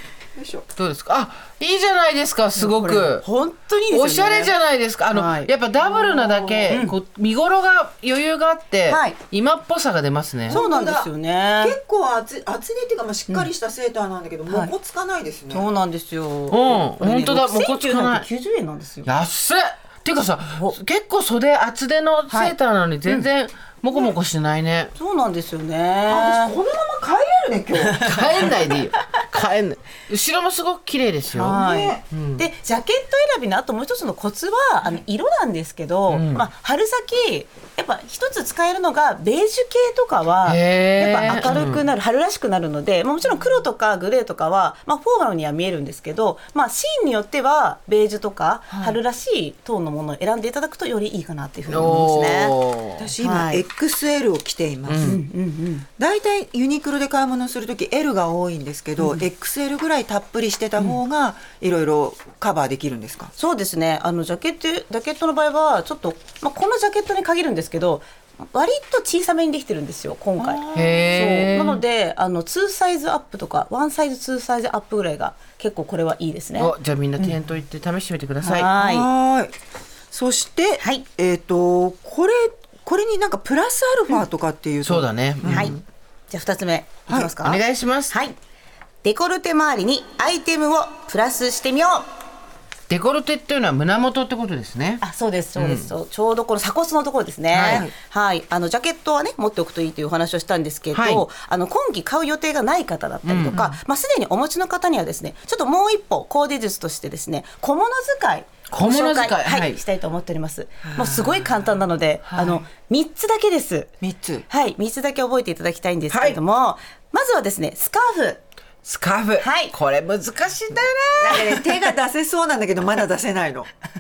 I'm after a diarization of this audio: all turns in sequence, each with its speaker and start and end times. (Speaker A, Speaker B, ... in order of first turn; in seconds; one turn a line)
Speaker A: 0.4-0.7
Speaker B: 0.8-3.2
Speaker A: 2.6-3.1
Speaker C: 3.2-4.5
Speaker B: 3.9-10.6
Speaker C: 5.1-5.5
Speaker A: 5.8-6.7
Speaker C: 6.7-7.0
Speaker C: 8.9-9.2
Speaker A: 10.5-15.7
Speaker C: 10.5-11.8
Speaker C: 14.5-14.7
Speaker C: 15.5-19.1
Speaker B: 16.5-18.3
Speaker B: 19.1-24.9
Speaker C: 20.4-20.8
Speaker C: 22.3-22.6
Speaker C: 24.9-26.6
Speaker A: 26.1-28.0
Speaker C: 27.8-28.9
Speaker B: 28.1-32.4
Speaker A: 31.3-32.0
Speaker C: 31.4-52.6
Speaker B: 36.1-36.5
Speaker B: 40.5-41.8
Speaker A: 43.2-43.6
Speaker A: 48.7-49.0
Speaker B: 51.7-53.1
Speaker A: 53.0-55.2
Speaker C: 53.2-53.6
Speaker B: 54.9-55.2
Speaker C: 55.0-55.9
Speaker A: 56.0-63.3
Speaker C: 59.0-59.2
Speaker C: 63.4-76.7
Speaker A: 70.4-71.1
Speaker B: 70.7-71.8
Speaker B: 76.6-78.7
Speaker C: 78.4-79.1
Speaker A: 78.8-79.5
Speaker A: 80.1-85.8
Speaker C: 80.8-81.1
Speaker B: 84.8-85.7
Speaker C: 85.5-85.8
Speaker C: 86.3-88.4
Speaker A: 87.1-87.3
Speaker B: 87.4-88.1
Speaker C: 89.0-92.1
Speaker B: 92.9-95.0
Speaker C: 95.0-113.9
Speaker B: 95.5-95.9
Speaker B: 97.5-97.9
Speaker A: 97.7-97.9
Speaker B: 100.9-101.2
Speaker B: 103.2-103.6
Speaker A: 103.5-103.8
Speaker B: 108.7-109.8
Speaker A: 110.8-111.8
Speaker B: 112.3-112.6
Speaker A: 114.0-114.5
Speaker C: 114.5-118.4
Speaker B: 116.1-116.4
Speaker B: 118.8-121.6
Speaker C: 119.4-119.7
Speaker A: 121.2-123.7
Speaker C: 121.3-121.8